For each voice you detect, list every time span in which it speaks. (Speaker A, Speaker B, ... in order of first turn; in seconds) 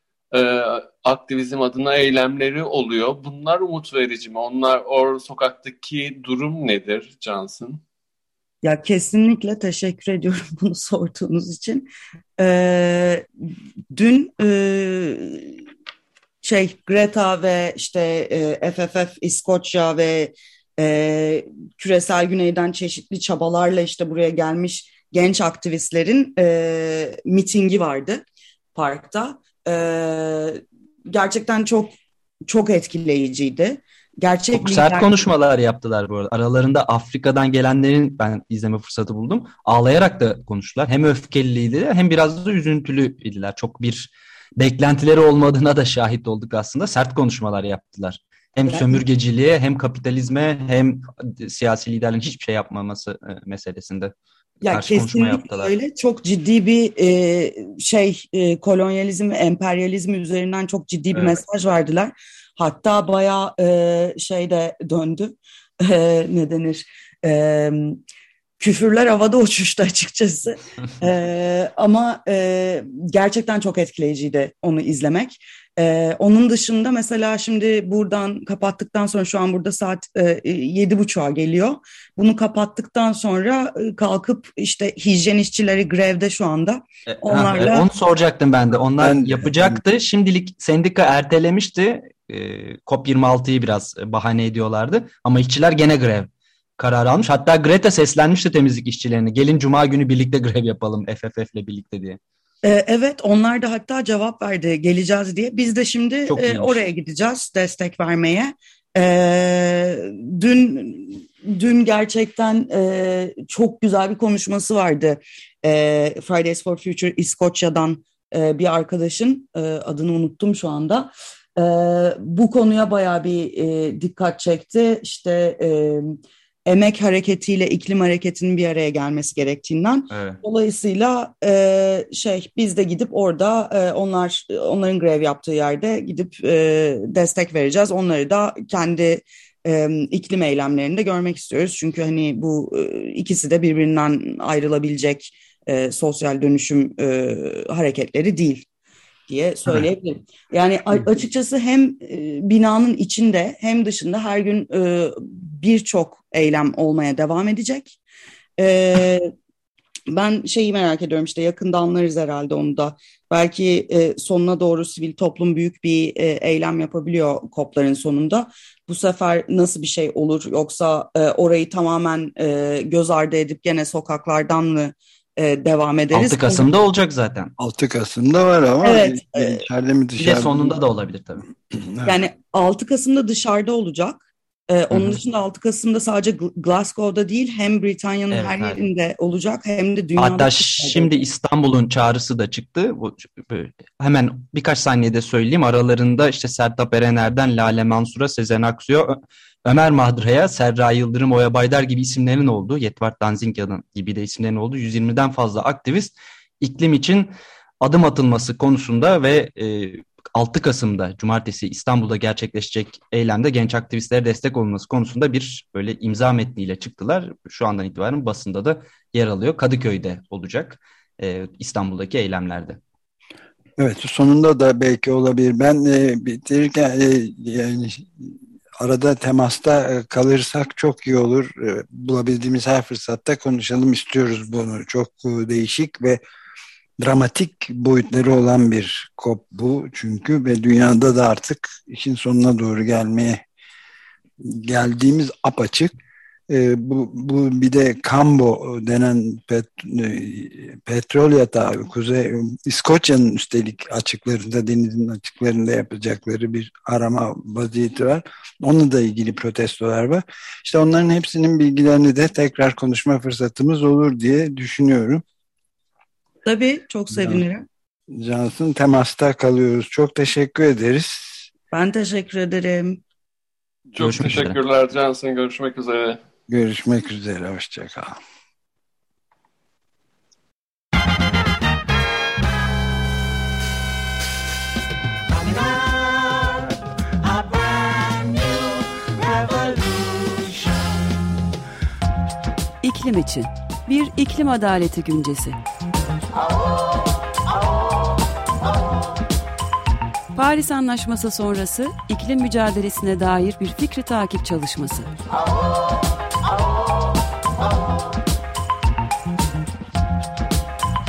Speaker A: 0.3-7.8, 273.9-276.2
Speaker B: 8.6-13.3, 13.9-15.6, 16.4-28.2, 28.8-31.9, 32.5-35.1, 48.7-49.0, 54.6-68.0, 68.6-87.9, 102.6-148.7, 149.3-158.0, 158.6-159.3, 160.1-176.7, 178.8-179.6, 182.1-191.2, 266.4-267.6, 271.7-273.0
Speaker C: 34.5-55.8, 87.1-102.2, 106.3-106.8, 130.1-130.4, 176.1-177.5, 180.2-181.5, 184.9-185.2, 188.3-188.9, 190.2-222.8, 274.0-274.6
Speaker D: 89.0-89.8, 177.6-180.8, 181.7-182.2, 223.8-236.2, 237.0-243.4, 244.4-245.9, 246.5-265.2, 268.1-271.4, 276.5-278.2
Speaker E: 292.8-295.6, 300.3-305.1